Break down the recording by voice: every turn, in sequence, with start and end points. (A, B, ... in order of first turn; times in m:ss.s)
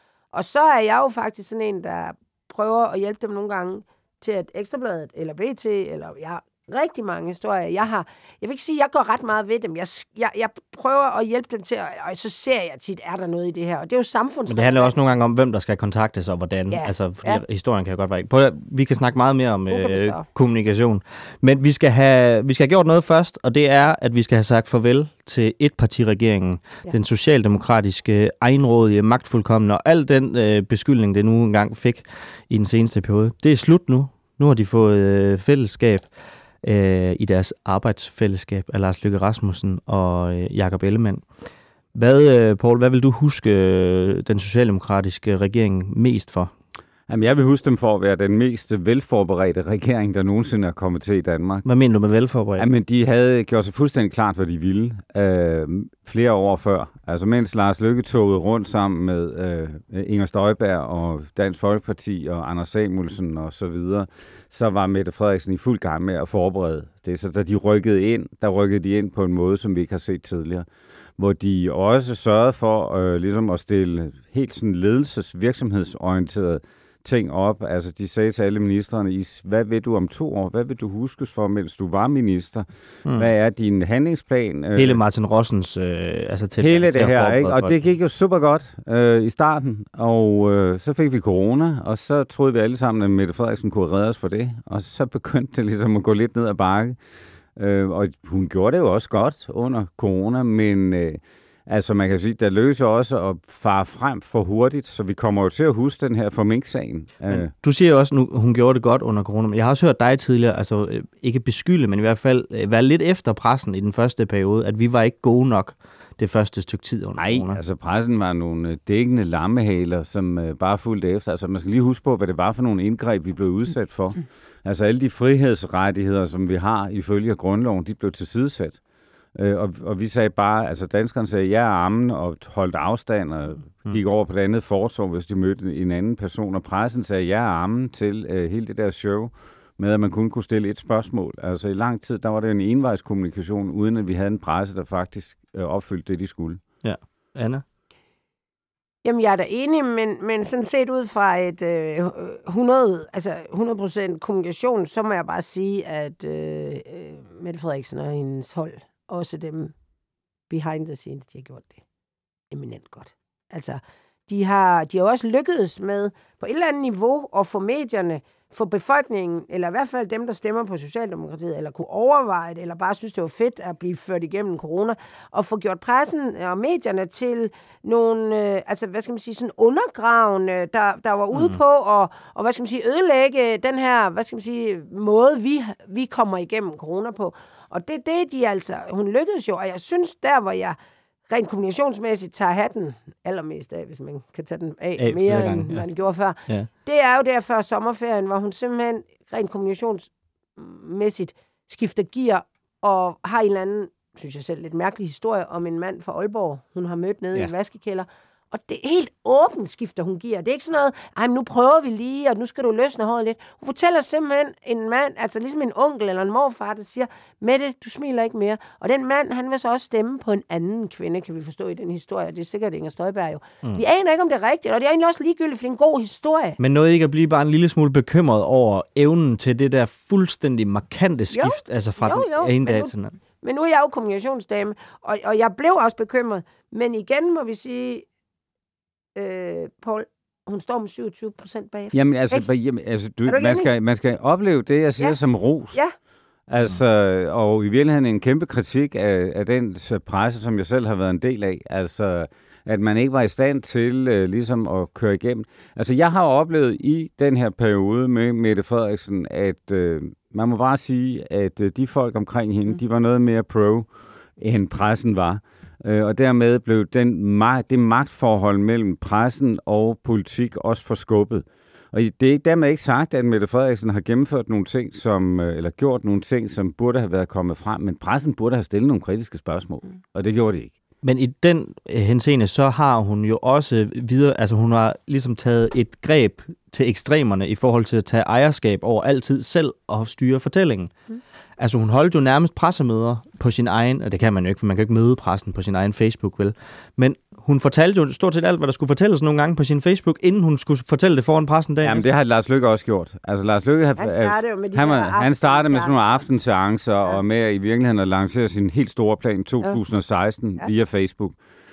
0:00.3-0:15.0 A
0:14.5-0:36.1 B
0:16.7-0:17.4 A
0:19.7-0:20.3 A
0:36.6-0:41.3 B
0:42.0-0:46.5 B
0:47.1-0:51.6 C
0:51.6-0:52.7 B
0:52.6-1:10.7 C
1:11.2-1:25.0 C
1:24.8-1:27.8 B
1:26.6-1:37.0 C
1:37.6-1:47.5 C
1:47.3-1:57.6 B
1:57.2-2:08.8 C
2:09.4-2:26.6 C
2:26.8-2:27.6 B
2:29.0-2:39.7 A
2:40.5-2:41.8 A
2:42.5-3:10.8 A
3:01.3-3:01.6 B
3:11.3-3:46.6 A
3:15.0-3:15.9 B
3:46.6-3:53.2 B
3:51.3-3:52.9 A
3:53.4-3:58.0 A
3:59.2-4:02.5 A
4:01.9-4:05.8 C
4:03.3-4:03.7 A
4:06.5-4:40.7 C
4:41.0-4:50.9 B
4:51.6-5:02.0 B
5:01.8-5:11.4 C
5:04.0-5:06.0 A